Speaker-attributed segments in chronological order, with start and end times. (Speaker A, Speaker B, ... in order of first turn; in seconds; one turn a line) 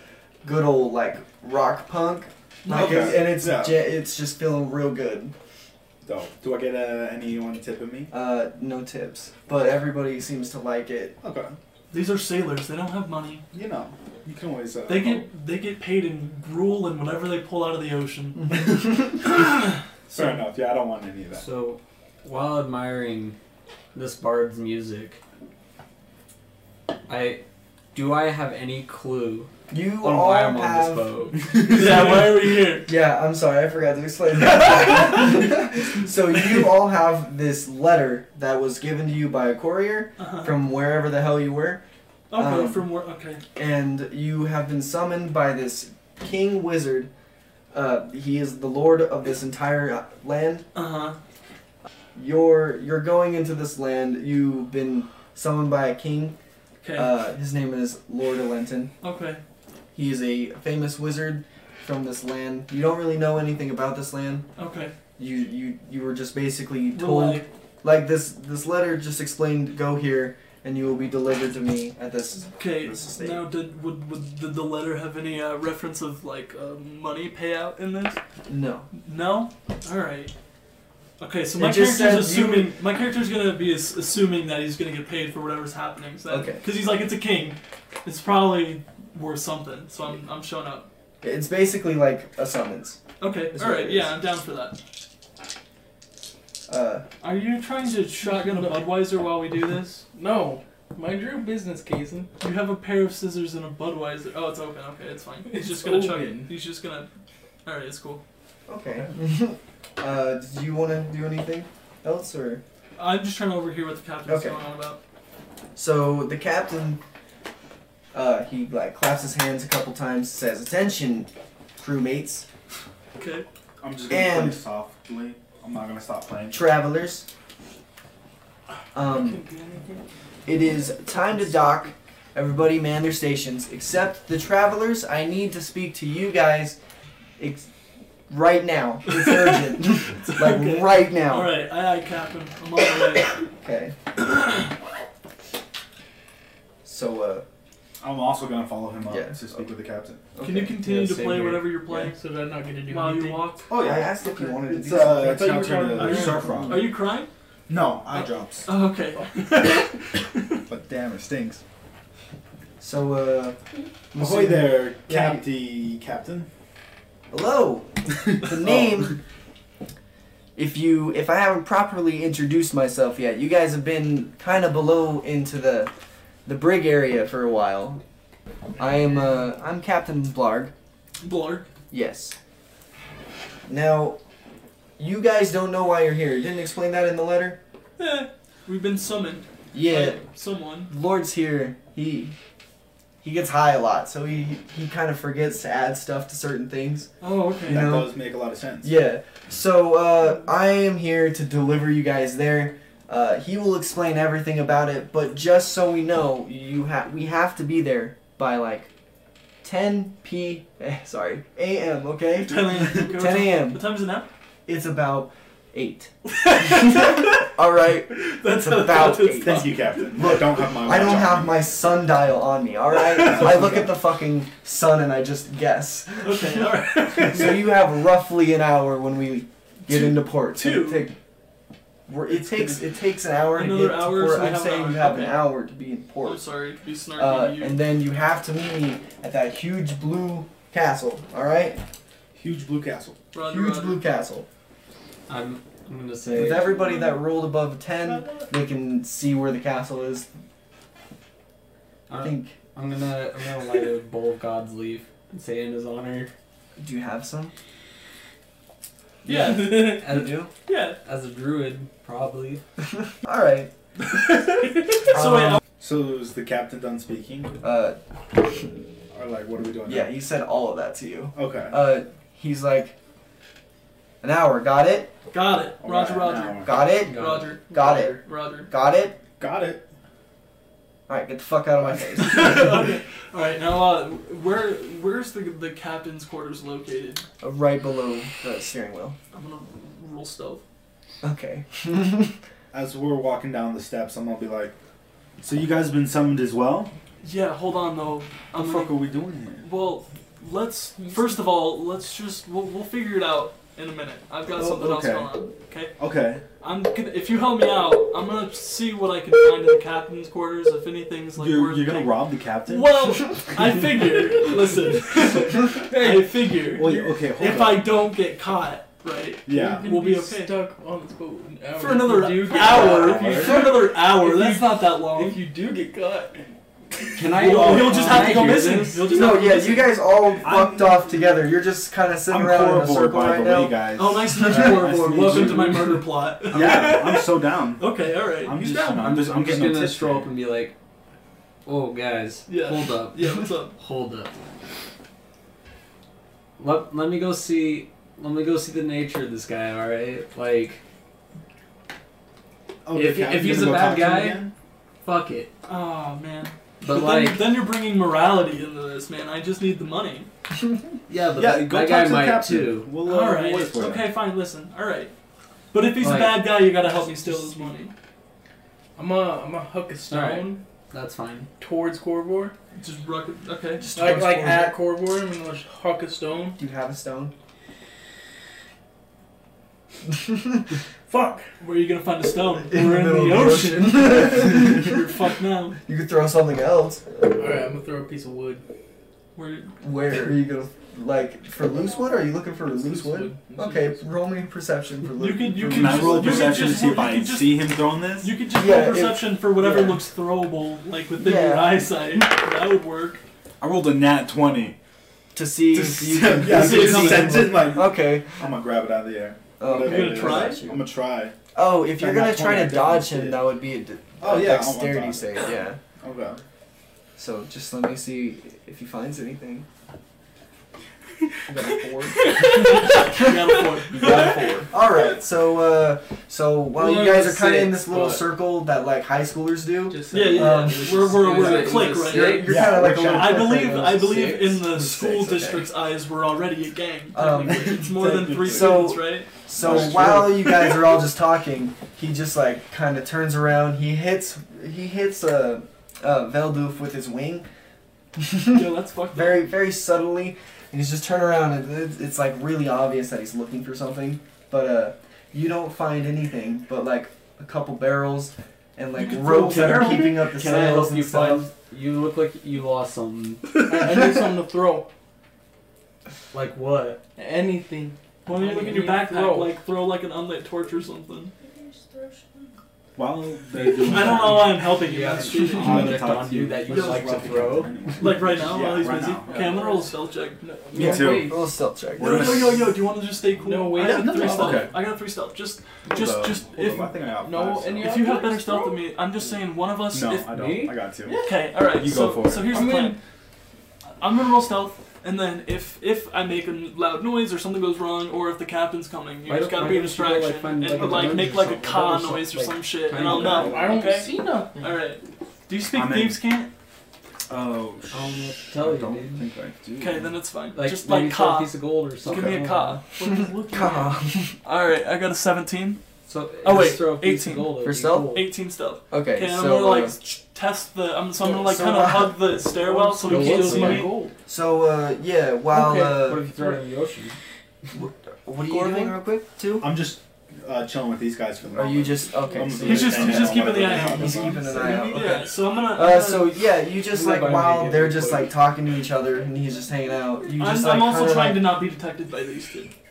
Speaker A: 0.4-5.3
Speaker B: 2.6-3.2
Speaker C: 2.7-3.9
Speaker C: 6.0-8.1
Speaker A: 8.1-11.2
Speaker C: 11.2-11.5
Speaker B: 11.9-13.4
Speaker C: 13.5-15.2
Speaker B: 14.9-19.8
Speaker C: 20.1-21.4
Speaker D: 21.4-23.4
Speaker D: 23.9-25.2
Speaker D: 27.1-27.4
Speaker D: 27.9-29.5
Speaker A: 29.7-31.3
Speaker D: 30.0-31.4
Speaker C: 31.5-32.1
Speaker B: 31.6-32.9
Speaker A: 32.9-42.9
Speaker B: 34.6-35.3
Speaker B: 40.2-40.5
Speaker B: 42.3-43.4
Speaker A: 43.6-47.1
Speaker A: 47.7-50.7
Speaker B: 50.8-51.2
Speaker A: 52.1-56.4
Speaker B: 56.8-57.1
Speaker A: 56.9-58.9
Speaker B: 59.0-59.4
Speaker A: 59.9-64.5
Speaker B: 64.6-64.9
Speaker A: 65.2-73.5
Speaker B: 66.9-67.5
Speaker B: 72.5-78.2
Speaker A: 78.5-78.9
Speaker B: 78.9-80.3
Speaker B: 81.2-90.9
Speaker A: 81.6-82.7
Speaker A: 86.3-86.6
Speaker A: 91.2-93.0
Speaker B: 93.2-94.8
Speaker A: 93.5-94.1
Speaker A: 96.7-97.0
Speaker B: 97.2-100.0
Speaker E: 98.2-99.0
Speaker E: 100.0-102.3
Speaker B: 102.4-107.1
Speaker E: 105.5-106.5
Speaker B: 107.6-108.2
Speaker A: 108.7-112.6
Speaker B: 113.0-115.0
Speaker A: 114.2-114.6
Speaker A: 115.8-117.0
Speaker A: 118.1-122.5
Speaker B: 123.2-123.5
Speaker C: 123.8-126.7
Speaker A: 124.1-124.6
Speaker A: 126.5-127.3
Speaker A: 128.9-129.4
Speaker B: 129.4-129.9
Speaker E: 129.4-130.0
Speaker A: 130.5-136.8
Speaker A: 137.4-137.7
Speaker A: 138.3-141.5
Speaker B: 139.1-143.4
Speaker A: 143.6-143.9
Speaker A: 146.8-147.4
Speaker C: 148.0-150.2
Speaker A: 149.1-149.6
Speaker A: 150.3-150.8
Speaker B: 150.4-152.2
Speaker D: 150.8-151.7
Speaker E: 151.9-153.5
Speaker B: 152.9-153.7
Speaker C: 153.7-156.9
Speaker A: 153.8-155.6
Speaker E: 154.9-156.6
Speaker B: 155.7-157.3
Speaker A: 156.5-156.9
Speaker C: 157.7-158.7
Speaker B: 158.1-160.6
Speaker C: 160.7-161.6
Speaker A: 162.8-163.6
Speaker A: 164.1-165.4
Speaker C: 164.1-166.5
Speaker A: 167.3-169.2
Speaker C: 168.3-169.1
Speaker A: 170.6-175.9
Speaker A: 176.5-178.0
Speaker A: 178.8-180.7
Speaker B: 181.2-181.7
Speaker A: 181.9-182.4
Speaker A: 183.7-184.2
Speaker A: 185.0-187.6
Speaker B: 188.0-190.9
Speaker A: 189.7-190.2
Speaker A: 190.9-192.3
Speaker A: 193.2-197.1
Speaker B: 197.2-197.9
Speaker A: 197.6-198.1
Speaker C: 197.7-199.0
Speaker A: 198.8-208.9
Speaker A: 209.6-213.9
Speaker B: 212.4-214.3
Speaker A: 214.7-216.1
Speaker B: 216.3-217.5
Speaker A: 216.7-231.2
Speaker B: 218.1-220.5
Speaker C: 219.4-221.6
Speaker B: 223.0-223.7
Speaker C: 223.2-223.9
Speaker B: 226.2-227.7
Speaker B: 229.9-231.1
Speaker A: 232.1-236.4
Speaker B: 233.5-235.5
Speaker B: 236.2-237.8
Speaker A: 237.2-241.8
Speaker C: 242.3-243.2
Speaker B: 243.3-244.0
Speaker A: 243.4-244.5
Speaker D: 245.3-246.8
Speaker A: 246.3-250.3
Speaker B: 246.6-247.2
Speaker B: 248.0-248.5
Speaker D: 252.1-256.3
Speaker A: 252.2-252.5
Speaker A: 256.8-257.5
Speaker A: 259.2-260.5
Speaker B: 259.2-260.1
Speaker D: 259.7-262.6
Speaker B: 260.6-261.0
Speaker A: 263.2-263.7
Speaker B: 264.0-265.6
Speaker A: 265.1-265.6
Speaker C: 265.8-267.6
Speaker A: 267.6-268.0
Speaker C: 269.1-270.1
Speaker A: 269.9-272.9
Speaker C: 271.4-271.8
Speaker A: 274.2-275.1
Speaker B: 275.3-278.7
Speaker C: 275.8-276.7
Speaker A: 276.6-279.2
Speaker D: 277.1-277.6
Speaker E: 277.7-278.0
Speaker C: 279.4-279.9
Speaker A: 281.1-282.8
Speaker B: 282.2-287.2
Speaker A: 287.4-289.2
Speaker B: 289.3-290.6
Speaker A: 291.2-292.4
Speaker C: 292.7-294.8
Speaker C: 295.4-296.9
Speaker B: 297.2-299.0
Speaker C: 298.5-299.7
Speaker B: 299.6-305.9
Speaker E: 301.0-301.4
Speaker C: 304.5-305.3
Speaker C: 306.0-306.4
Speaker B: 306.6-320.5
Speaker C: 311.4-313.2
Speaker E: 314.9-316.6
Speaker C: 316.7-318.0
Speaker C: 319.5-319.9
Speaker E: 319.5-326.4
Speaker B: 321.8-325.4
Speaker D: 322.8-323.3
Speaker C: 322.8-323.5
Speaker E: 327.0-328.4
Speaker D: 327.1-329.3
Speaker B: 327.2-329.9
Speaker A: 329.1-333.8
Speaker C: 330.4-331.3
Speaker C: 332.3-336.0
Speaker B: 334.0-338.6
Speaker A: 334.3-335.7
Speaker C: 336.5-340.3
Speaker D: 336.5-337.0
Speaker D: 338.5-340.8
Speaker D: 341.6-344.3
Speaker B: 342.5-343.8
Speaker D: 346.6-350.8
Speaker C: 352.9-354.5
Speaker D: 352.9-354.4
Speaker D: 355.0-355.5
Speaker B: 355.6-360.3
Speaker D: 356.8-357.5
Speaker D: 361.1-363.0
Speaker C: 361.4-364.1
Speaker B: 363.0-365.1
Speaker B: 365.7-367.9
Speaker A: 366.0-366.3
Speaker D: 366.0-366.4
Speaker E: 367.0-367.7
Speaker E: 369.0-370.6
Speaker D: 370.1-371.5
Speaker E: 371.6-372.5
Speaker B: 372.8-373.9
Speaker A: 373.8-374.8
Speaker E: 374.0-376.6
Speaker A: 376.6-377.3
Speaker A: 380.1-380.6
Speaker E: 381.1-381.5
Speaker B: 381.6-385.8
Speaker A: 382.7-385.0
Speaker A: 385.8-387.0
Speaker E: 387.4-388.6
Speaker B: 389.4-389.8
Speaker A: 389.8-396.8
Speaker E: 392.6-394.1
Speaker B: 395.2-403.2
Speaker C: 395.6-398.3
Speaker A: 398.5-400.0
Speaker A: 401.2-402.0
Speaker C: 403.6-404.8
Speaker A: 405.3-408.4
Speaker C: 405.7-411.4
Speaker B: 406.4-407.5
Speaker A: 409.6-410.9
Speaker B: 409.7-410.6
Speaker A: 411.5-415.8
Speaker C: 412.0-413.4
Speaker C: 414.2-416.4
Speaker A: 417.2-419.6
Speaker A: 421.5-423.3
Speaker B: 422.1-424.8
Speaker E: 422.4-422.9
Speaker A: 423.9-435.7
Speaker E: 426.8-428.3
Speaker E: 429.9-432.2
Speaker B: 430.1-440.8
Speaker D: 431.3-432.6
Speaker C: 432.5-433.8
Speaker A: 437.1-447.5
Speaker C: 437.5-438.9
Speaker C: 439.6-440.4
Speaker A: 448.1-461.5
Speaker B: 448.5-449.5
Speaker B: 459.0-460.2
Speaker D: 459.8-463.9
Speaker E: 463.6-464.9
Speaker D: 466.3-467.0
Speaker E: 467.1-469.5
Speaker B: 468.2-471.3
Speaker E: 471.4-472.4
Speaker C: 473.0-474.7
Speaker D: 473.6-478.1
Speaker B: 473.8-477.3
Speaker C: 475.6-479.5
Speaker B: 478.0-480.4
Speaker E: 479.3-481.4
Speaker C: 480.7-481.4
Speaker A: 480.7-482.4
Speaker C: 482.0-482.8
Speaker B: 482.0-486.9
Speaker E: 483.4-484.8
Speaker C: 483.8-484.8
Speaker C: 485.9-488.0
Speaker E: 485.9-486.2
Speaker E: 487.2-488.8
Speaker B: 487.8-490.3
Speaker C: 489.9-491.2
Speaker D: 490.3-490.8
Speaker E: 491.0-491.4
Speaker B: 491.2-493.0
Speaker C: 491.7-492.7
Speaker E: 492.5-493.0
Speaker B: 494.0-506.5
Speaker D: 499.2-503.9
Speaker E: 503.0-504.8
Speaker C: 505.7-506.2
Speaker C: 507.3-510.1
Speaker D: 507.9-509.2
Speaker B: 509.8-515.8
Speaker D: 510.5-512.8
Speaker A: 513.5-514.4
Speaker D: 516.1-518.3
Speaker B: 516.4-517.6
Speaker A: 517.6-518.2
Speaker B: 518.1-523.9
Speaker A: 518.9-520.0
Speaker A: 521.2-522.2
Speaker E: 522.5-524.1
Speaker D: 523.0-523.9
Speaker A: 524.2-526.2
Speaker D: 525.5-527.1
Speaker A: 527.7-529.7
Speaker C: 529.6-534.4
Speaker A: 531.5-541.5
Speaker B: 532.6-536.4
Speaker E: 534.4-535.2
Speaker D: 536.9-538.4
Speaker B: 540.3-542.7